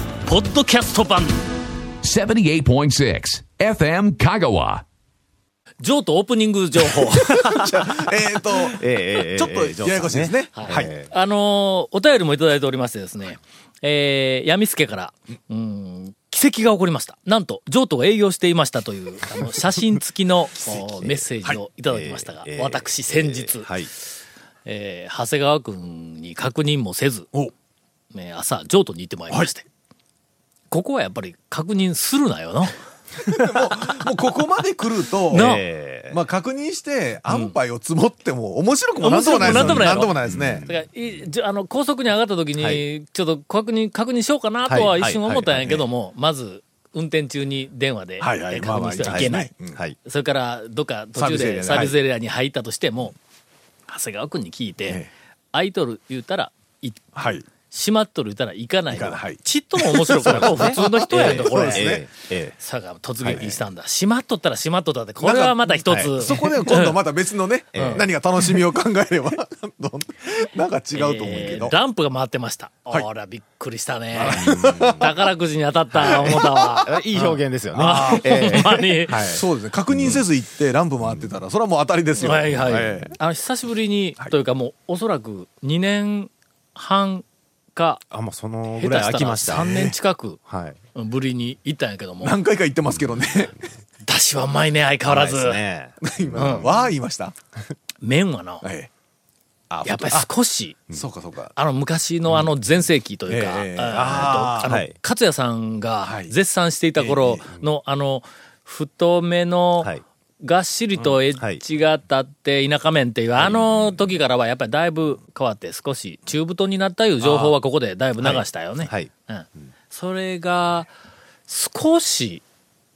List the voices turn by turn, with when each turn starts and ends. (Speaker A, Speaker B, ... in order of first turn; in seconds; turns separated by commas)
Speaker A: 0.2-1.4, Speaker B: 2.0-4.8, Speaker A: 5.8-7.5, Speaker C: 7.0-10.9, Speaker D: 7.3-7.9, Speaker D: 8.6-11.1, Speaker A: 10.5-23.9, Speaker D: 20.6-21.2, Speaker D: 21.9-23.9, Speaker A: 24.6-27.3, Speaker A: 28.1-29.6, Speaker A: 30.7-32.7, Speaker C: 33.3-40.6, Speaker A: 35.3-35.6, Speaker D: 35.3-36.2, Speaker A: 37.3-37.5, Speaker A: 39.0-40.1, Speaker D: 39.3-40.8, Speaker A: 40.6-49.5, Speaker D: 42.6-42.8, Speaker D: 44.7-45.8, Speaker C: 48.2-49.8, Speaker D: 49.0-50.0, Speaker A: 50.0-53.1, Speaker C: 51.1-51.9, Speaker A: 53.9-55.0, Speaker C: 54.8-55.1, Speaker A: 55.5-62.0, Speaker C: 57.1-57.4, Speaker C: 58.9-62.1, Speaker D: 60.2-62.5, Speaker A: 62.6-67.0, Speaker D: 63.2-63.5, Speaker C: 65.2-71.7, Speaker D: 67.7-68.0, Speaker A: 67.8-68.0, Speaker A: 70.9-79.3, Speaker C: 74.2-75.1, Speaker D: 74.2-75.1, Speaker D: 75.9-80.2, Speaker C: 76.0-76.8, Speaker C: 77.7-83.2, Speaker A: 82.2-88.0, Speaker D: 82.2-82.7, Speaker D: 88.1-89.7, Speaker A: 88.7-90.4, Speaker C: 89.5-90.0, Speaker D: 90.5-90.8, Speaker A: 90.9-92.3, Speaker C: 92.2-93.6, Speaker A: 94.0-95.6, Speaker D: 95.0-96.9, Speaker C: 96.0-97.3, Speaker A: 96.4-96.7, Speaker A: 98.0-98.6, Speaker C: 98.6-98.9, Speaker C: 99.7-100.3, Speaker A: 99.8-100.8, Speaker C: 100.9-101.5, Speaker A: 101.5-120.9, Speaker C: 103.3-104.8, Speaker D: 104.6-104.9, Speaker C: 106.0-106.3, Speaker C: 107.0-107.5, Speaker D: 111.4-111.6, Speaker C: 117.2-117.5, Speaker D: 118.2-119.1, Speaker A: 121.5-122.4